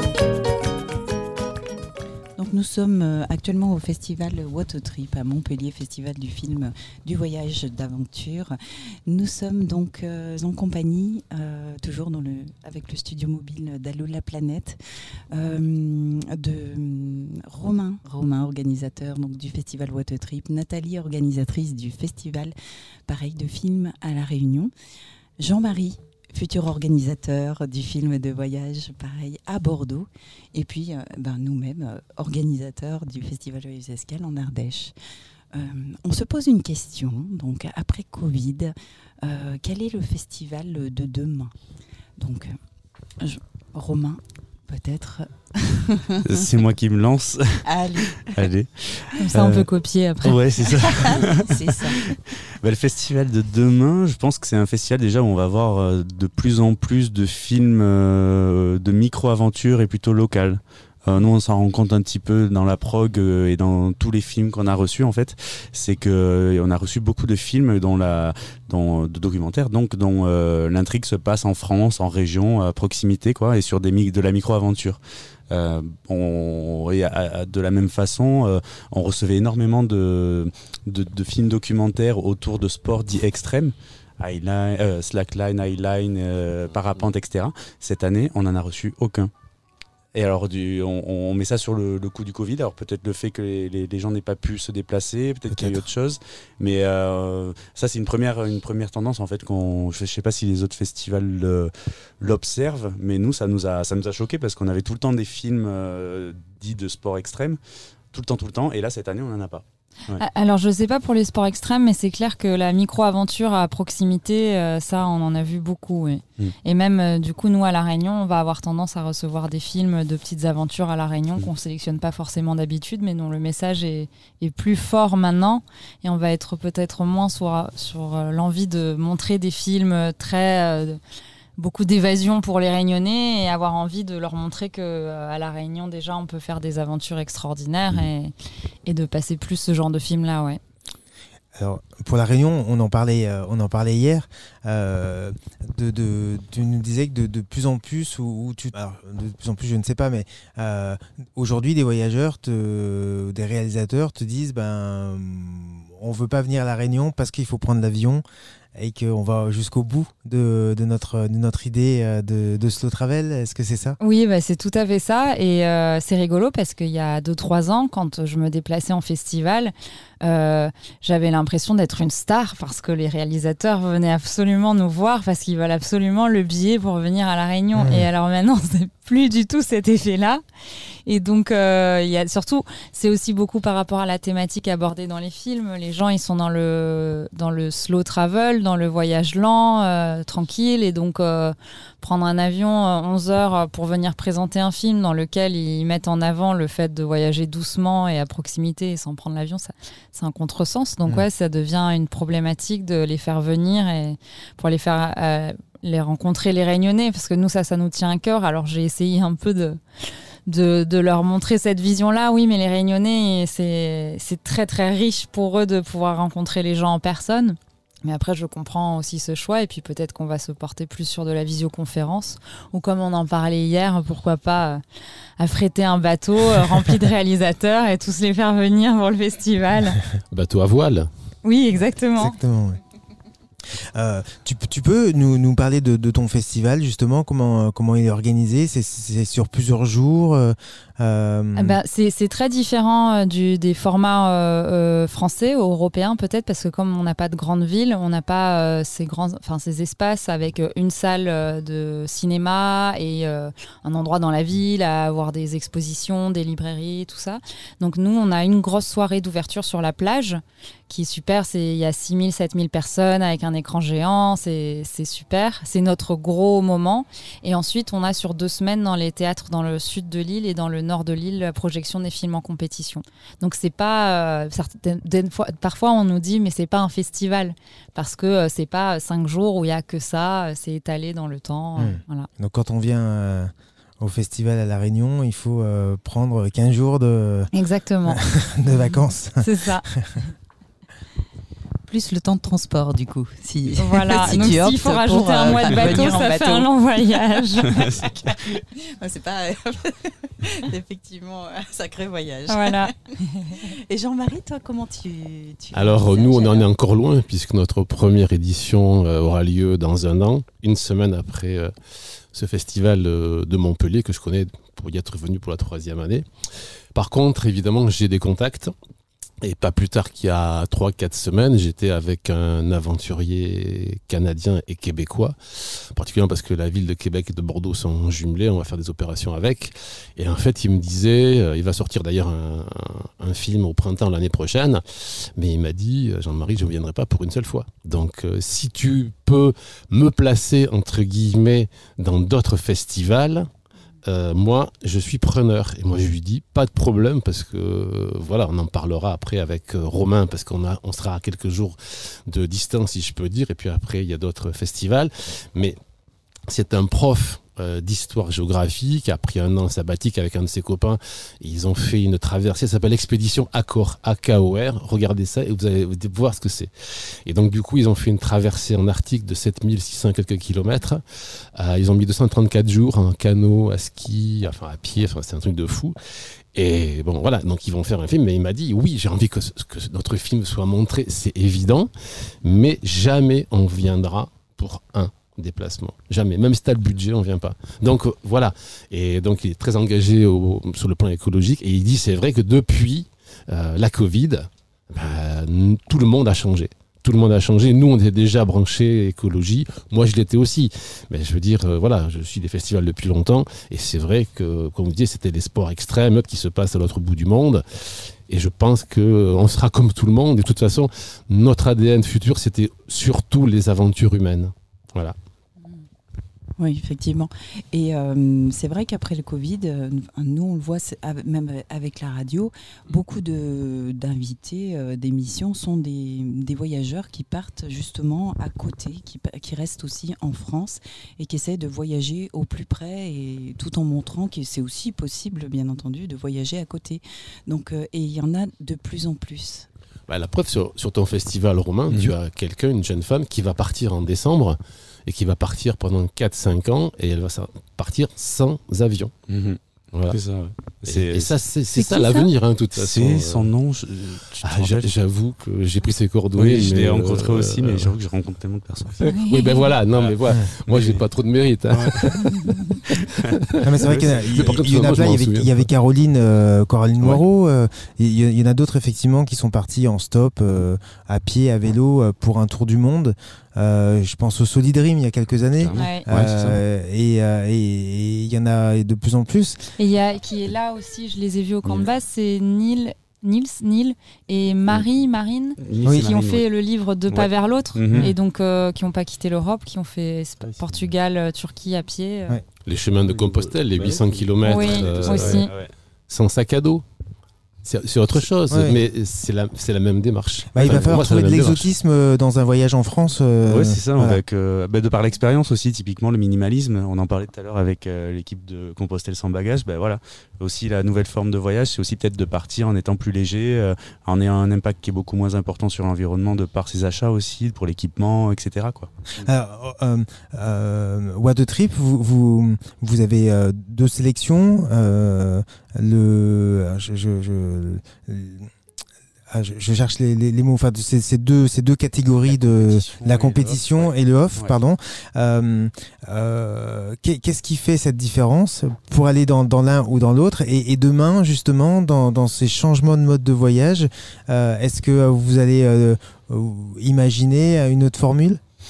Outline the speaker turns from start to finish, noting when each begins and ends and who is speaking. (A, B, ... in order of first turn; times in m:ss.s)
0:02.4-0:14.8 A
0:15.3-0:22.5 A
0:23.1-0:24.7 A
0:25.4-0:34.9 A
0:35.5-0:41.5 A
0:42.2-0:42.5 A
0:43.2-0:46.2 A
0:46.2-0:47.6 B
0:47.7-0:48.4 A
0:48.2-0:49.7 B
0:49.2-0:50.4 C
0:50.2-1:15.0 B
0:50.7-0:52.1 A
1:15.5-1:29.3 B
1:30.1-1:47.6 B
1:35.5-1:35.9 D
1:48.1-1:50.2 B
1:50.2-2:11.0 C
2:11.6-2:18.3 C
2:18.8-2:20.6 C
2:21.6-2:38.2 D
2:38.8-2:44.0 D
2:44.0-3:00.4 C
2:57.8-2:58.1 D
3:01.1-3:29.8 C
3:30.5-3:44.8 C
3:45.4-3:50.0 C
3:50.3-3:51.1 E
3:51.4-3:52.4 C
3:52.2-3:52.8 D
3:54.0-4:01.8 D
4:01.6-4:42.3 C
4:41.8-4:47.5 D
4:47.5-4:48.2 C
4:48.1-4:50.2 D
4:49.4-4:49.9 C
4:51.9-4:56.7 A
4:53.8-4:57.8 C
4:57.8-5:02.9 A
4:57.8-4:58.5 B
5:02.5-5:03.6 C
5:03.8-5:06.7 A
5:05.7-5:16.3 E
5:16.9-5:18.7 E
5:19.4-5:43.5 E
5:44.0-5:55.8 E
5:56.5-6:11.0 E
6:11.6-6:16.0 E
6:16.5-6:55.2 E
6:56.6-7:19.7 A
7:20.1-7:29.1 E
7:29.3-7:31.4 B
7:30.9-7:33.5 E
7:31.7-7:32.3 A
7:32.8-7:34.9 B
7:34.4-7:37.9 E
7:36.4-7:39.0 B
7:39.0-7:45.7 E
7:39.1-7:39.6 C
7:39.9-7:41.0 B
7:41.7-7:42.0 B
7:43.6-7:59.7 D
7:43.9-7:44.6 B
7:55.6-7:56.6 B
7:55.8-7:56.1 C
7:59.8-8:12.4 C
8:05.6-8:06.4 B
8:05.8-8:06.1 D
8:07.1-8:08.1 B
8:12.6-8:15.4 E
8:13.1-8:15.7 B
8:14.4-8:15.5 C
8:16.1-8:16.8 E
8:17.6-8:21.7 E
8:18.5-8:18.8 D
8:20.5-8:24.2 D
8:20.6-8:21.0 B
8:23.5-8:39.3 B
8:39.2-8:48.5 D
8:49.3-9:08.4 D
8:52.3-8:54.6 B